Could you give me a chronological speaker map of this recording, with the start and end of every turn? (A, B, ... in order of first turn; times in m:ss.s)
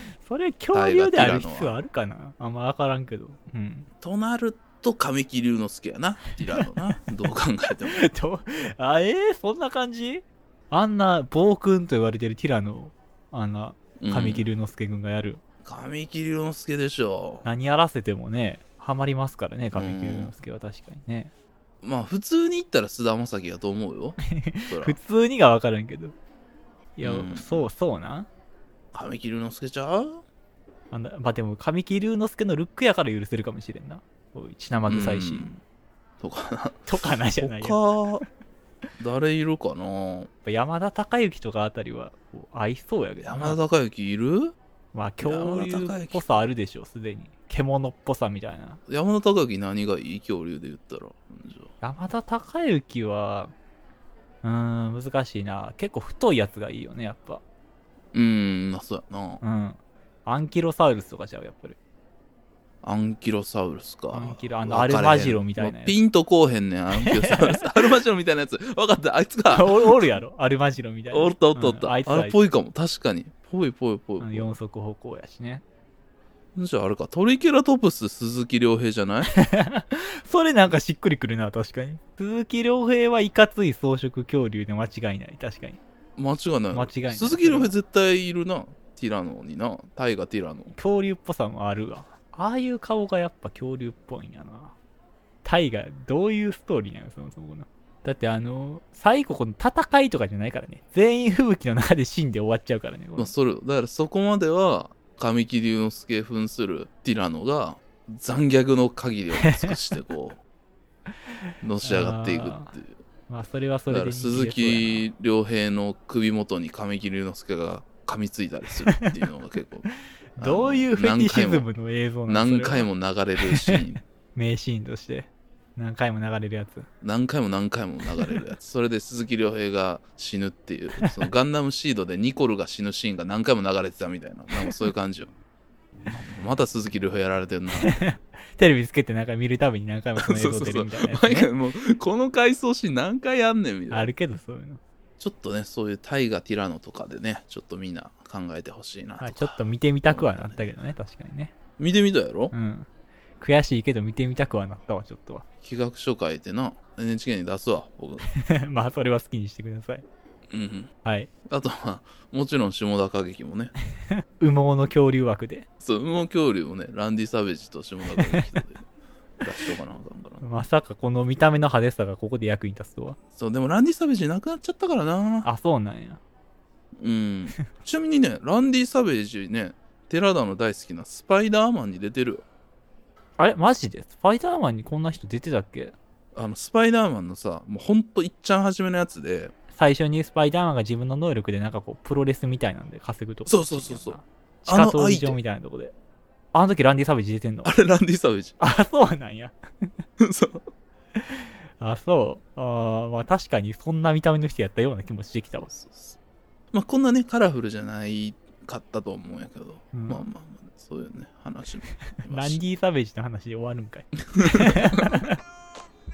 0:00.2-0:03.9 A
0:00.7-0:01.8 B
0:04.0-0:08.0 B
0:06.4-0:06.9 A
0:07.7-0:15.4 A
0:14.0-0:14.5 B
0:15.6-0:17.5 B
0:17.4-0:21.3 A
0:19.7-0:20.4 B
0:21.8-0:25.0 B
0:24.3-0:26.2 A
0:27.0-0:28.3 A
0:27.0-0:27.7 B
0:28.9-0:30.2 B
0:30.9-0:35.6 A
0:34.8-0:35.5 B
0:36.2-0:38.2 B
0:36.8-0:38.2 A
0:39.0-0:40.3 B
0:40.4-0:43.6 A
0:43.2-0:44.6 B
0:44.9-0:48.8 A
0:45.2-0:46.4 B
0:48.9-0:51.7 B
0:51.8-0:53.5 A
0:54.4-0:57.4 A
0:58.1-0:59.4 B
0:59.4-1:01.8 A
1:02.8-1:10.2 B
1:04.1-1:06.0 A
1:06.9-1:07.7 A
1:09.5-1:12.4 A
1:11.1-1:14.5 B
1:14.2-1:15.6 A
1:16.5-1:19.3 B
1:19.3-1:25.8 A
1:26.2-1:30.7 B
1:26.7-1:27.7 A
1:30.7-1:34.7 A
1:35.4-1:43.3 A
1:43.2-1:50.4 B
1:51.6-1:53.0 B
1:51.8-1:52.7 A
1:53.3-1:55.0 A
1:53.9-1:59.9 B
2:00.4-2:02.9 A
2:00.4-2:01.7 B
2:02.2-2:04.0 B
2:03.5-2:03.8 A
2:04.3-2:06.9 A
2:07.0-2:15.3 B
2:14.5-2:14.8 A
2:16.1-2:18.0 B
2:17.7-2:21.5 A
2:20.2-2:24.1 B
2:23.9-2:24.8 A
2:25.2-2:30.7 B
2:29.2-2:31.5 A
2:31.8-2:32.5 B
2:32.5-2:32.9 A
2:33.4-2:35.4 A
2:35.6-2:38.3 B
2:38.3-2:40.0 A
2:40.5-2:40.9 B
2:41.0-2:41.3 A
2:41.5-2:43.7 B
2:44.4-2:45.6 A
2:45.8-2:48.8 B
2:48.2-2:48.5 A
2:49.4-2:50.4 B
2:50.4-2:53.2 A
2:53.4-2:55.5 B
2:55.4-2:56.2 A
2:57.0-3:02.4 B
3:03.4-3:05.9 A
3:06.3-3:09.5 B
3:09.7-3:15.9 A
3:13.5-3:15.4 B
3:16.5-3:17.7 A
3:17.6-3:18.6 B
3:18.6-3:19.9 A
3:20.2-3:20.6 B
3:21.1-3:25.7 A
3:25.7-3:26.2 B
3:26.7-3:32.6 B
3:29.9-3:30.2 A
3:32.2-3:35.4 A
3:34.3-3:35.0 B